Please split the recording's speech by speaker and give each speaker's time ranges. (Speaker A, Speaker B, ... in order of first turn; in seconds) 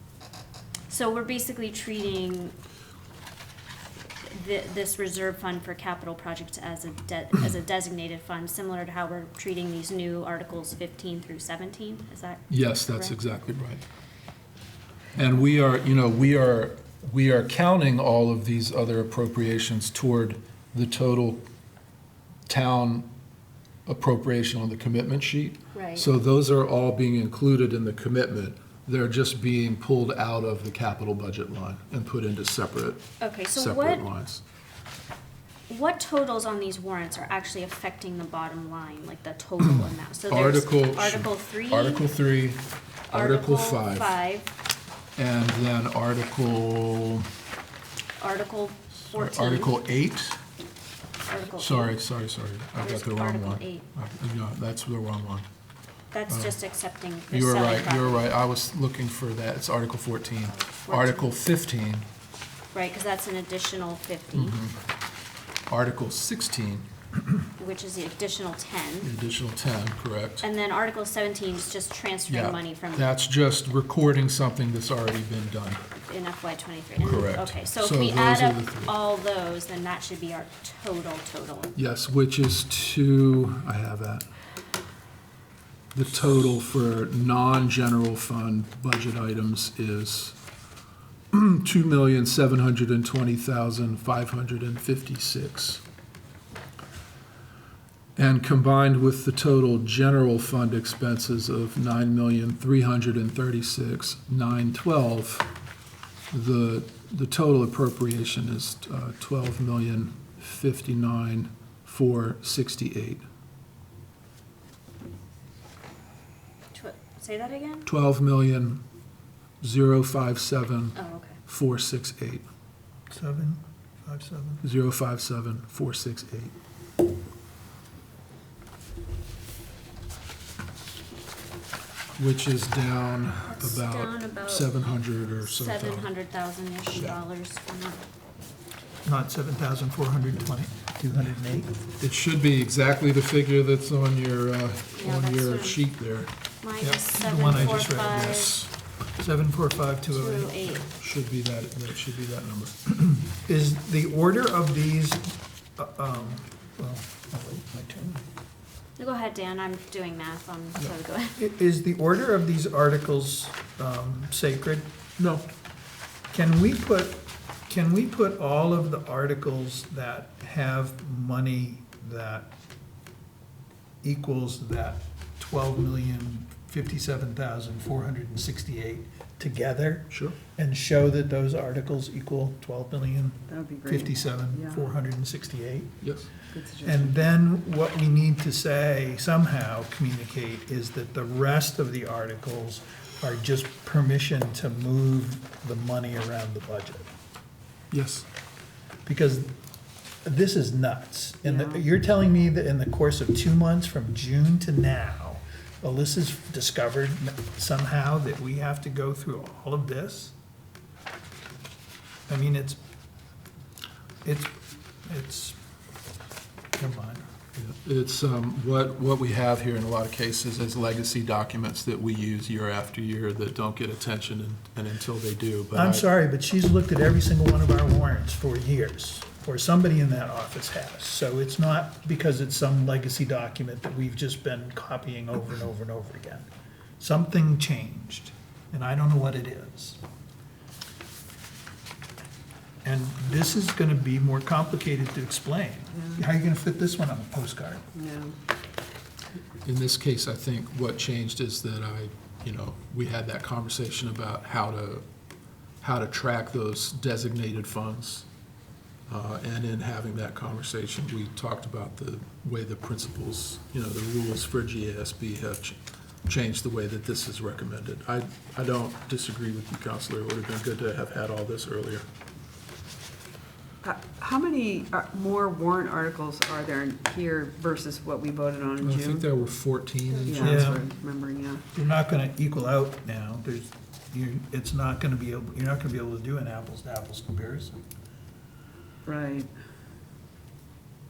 Speaker A: 0.9-2.5, 4.3-13.2, 25.7-26.1, 33.2-34.1, 35.7-42.1, 43.1-44.5, 48.2-49.8, 51.3-52.0, 52.8-53.9, 56.1-58.3, 60.5-61.3, 62.7-64.6, 67.6-69.1, 70.4-73.1, 76.0-81.7, 116.7-117.9, 121.0-121.4, 133.5-134.8, 135.4-138.0, 144.9-145.8, 146.6-148.6, 150.1-150.9, 159.0-161.4
Speaker B: 12.5-13.8, 15.2-21.4, 22.5-23.1, 23.9-34.4, 40.3-44.2, 45.2-47.3, 49.0-50.4, 51.6-55.5, 56.3-56.6, 57.3-62.1, 64.3-64.8, 65.7-66.9, 69.0-70.5, 72.3-75.8, 77.0-79.0, 81.8-84.3, 85.9-90.4, 91.3-95.8, 98.2-105.5, 106.3-113.2, 117.9-118.8, 119.6-121.0, 121.5-122.5, 124.6-126.5, 132.2-136.1, 142.0-146.3, 147.4-148.7, 151.0-153.0, 165.2-165.5, 180.1-180.4, 186.0-186.3, 197.9-198.3, 217.6-226.1, 249.7-255.0, 255.8-258.2, 259.1-272.1, 278.8-280.8
Speaker C: 123.1-124.6, 139.1-141.8, 146.8-148.4, 149.2-150.6, 153.3-158.2, 161.4-164.9, 166.3-172.5, 174.0-186.0, 186.8-197.1, 199.1-199.5, 200.2-210.3, 212.3-212.8, 214.2-214.5, 215.1-215.6, 216.8-217.2, 225.7-236.5, 237.0-240.0, 242.8-247.8, 280.3-280.9, 281.7-287.8
Speaker D: 183.5-184.8, 186.5-187.1, 201.4-201.8, 248.0-248.3, 273.8-279.3, 280.3-281.6, 289.1-289.5